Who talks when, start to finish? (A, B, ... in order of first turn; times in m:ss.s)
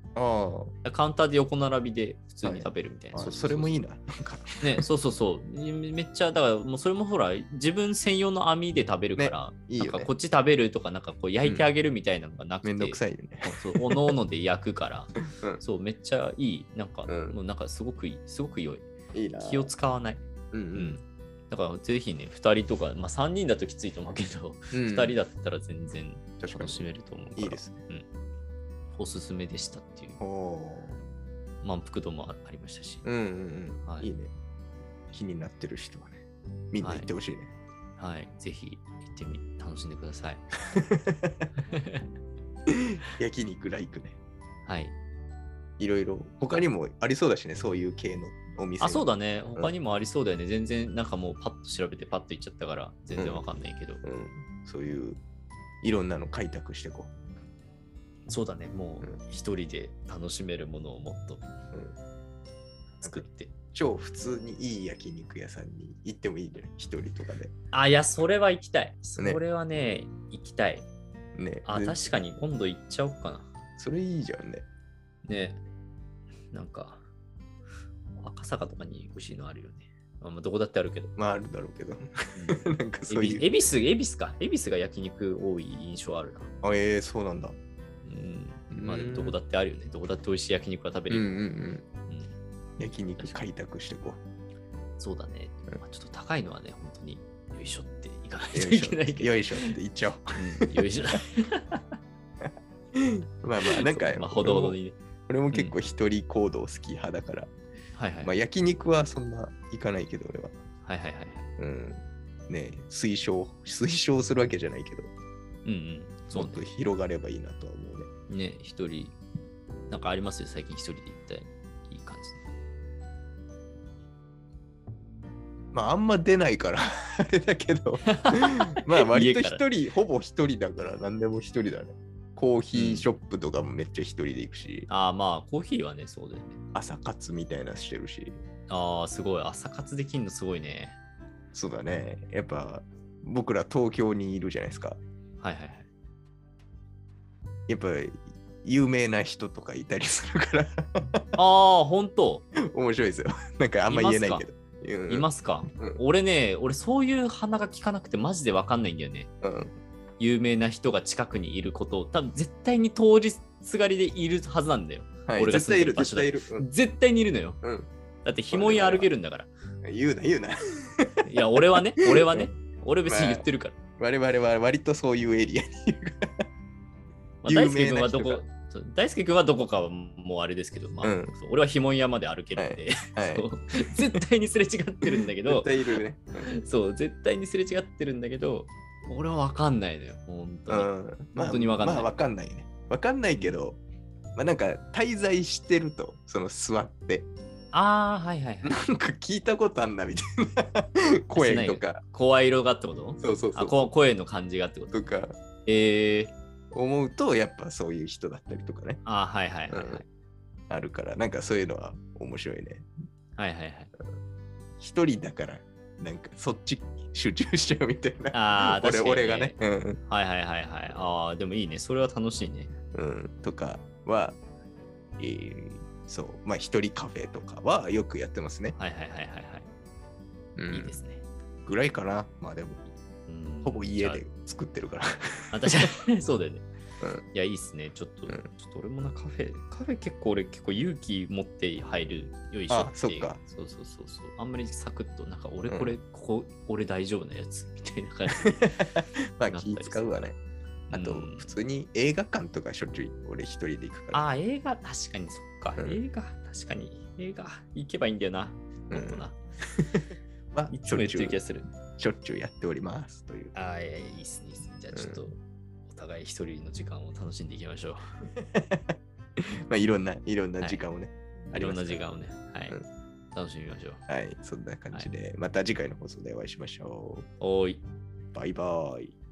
0:00.2-0:00.7 A
0:00.8-0:03.8 B
0:02.4-0:04.8 A
0:04.6-0:18.9 B
0:09.2-0:10.1 A
0:12.6-0:14.2 A
0:17.1-0:17.4 A
0:19.1-0:19.7 A
0:19.4-0:28.1 B
0:20.5-0:21.0 A
0:24.7-0:25.2 A
0:26.4-0:26.8 A
0:27.4-0:27.8 A
0:29.0-0:30.2 B
0:30.2-0:31.0 A
0:31.6-0:33.0 B
0:33.0-0:34.3 A
0:33.8-0:34.1 B
0:35.1-0:37.5 A
0:36.8-0:37.1 B
0:38.0-0:40.4 B
0:40.8-0:41.5 A
0:41.7-0:42.1 B
0:43.2-0:44.2 A
0:44.7-0:45.0 B
0:45.8-0:49.7 A
0:48.8-0:54.0 B
0:53.2-0:53.4 A
0:54.0-0:55.2 A
0:55.8-0:57.1 A
0:58.3-1:01.5 B
1:03.0-1:03.5 B
1:03.0-1:07.5 A
1:07.7-1:10.9 B
1:11.4-1:12.0 A
1:11.6-1:13.5 B
1:13.8-1:14.6 A
1:15.2-1:15.6 B
1:16.5-1:17.0 B
1:18.2-1:21.1 B
1:21.2-1:23.5 A
1:22.3-1:26.5 B
1:26.6-1:27.6 A
1:28.0-1:31.3 B
1:28.7-1:29.4 A
1:31.1-1:31.8 A
1:32.1-1:32.4 B
1:32.8-1:34.2 A
1:35.0-1:39.8 B
1:38.5-1:40.9 A
1:40.4-1:41.8 B
1:42.9-1:44.8 A
1:43.7-1:45.0 B
1:45.3-1:47.5 A
1:48.0-1:48.3 B
1:48.2-1:50.5 A
1:50.8-1:51.5 B
1:51.6-1:55.1 A
1:55.6-1:56.7 B
1:56.3-1:58.1 A
1:58.3-1:59.2 B
1:59.9-2:02.4 B
2:05.7-2:14.9 A
2:08.1-2:09.6 B
2:12.7-2:13.1 B
2:14.9-2:16.6 B
2:16.8-2:18.4 A
2:18.7-2:21.0 B
2:21.5-2:25.0 A
2:25.4-2:25.9 B
2:27.7-2:31.4 A
2:31.4-2:32.4 B
2:32.6-2:36.0 A
2:33.9-2:34.5 B
2:35.1-2:39.3 B
2:39.4-2:39.7 A
2:40.2-2:47.6 B
2:45.3-2:46.7 A
2:47.6-2:47.9 A
2:48.2-2:49.5 B
2:48.5-2:49.1 A
2:49.8-2:52.5 A
2:51.2-2:53.8 B
2:53.1-2:53.5 A
2:54.0-2:56.3 A
2:57.4-3:12.1 B
2:57.5-2:58.4 A
3:01.0-3:01.3 A
3:02.6-3:03.5 A
3:05.4-3:06.5 A
3:10.7-3:13.8 A
3:14.4-3:17.3 A
3:17.7-3:18.7 B
3:18.6-3:22.0 A
3:21.4-3:25.0 B
3:23.2-3:23.9 A
3:24.9-3:25.3 A
3:25.7-3:26.3 B
3:26.7-3:29.0 A
3:29.0-3:30.1 B
3:29.7-3:30.0 A
3:30.7-3:32.9 A
3:33.4-3:33.9 B
3:34.8-3:40.0 A
3:38.3-3:42.7 B
3:42.9-3:44.4 A
3:45.2-3:48.8 A
3:48.8-3:49.7 B
3:50.6-3:51.0 A
3:50.7-3:51.2 B
3:51.7-3:52.9 A
3:53.3-3:54.2 B
3:53.6-3:55.9 A
3:55.5-3:56.6 B
3:57.3-4:08.9 B
4:02.7-4:03.4 A
4:05.7-4:06.0 A
4:08.5-4:10.4 A
4:09.5-4:10.1 B
4:10.9-4:14.3 A
4:10.9-4:11.5 B
4:14.1-4:19.4 B
4:18.9-4:19.3 A
4:19.8-4:21.4 A
4:20.7-4:21.7 B
4:22.0-4:23.5 A
4:23.5-4:28.2 B
4:24.9-4:25.3 A
4:28.4-4:28.8 A
4:29.7-4:32.0 A
4:31.5-4:32.8 B
4:33.3-4:34.0 B
4:34.1-4:37.3 A
4:37.4-4:37.8 B
4:38.3-4:39.2 A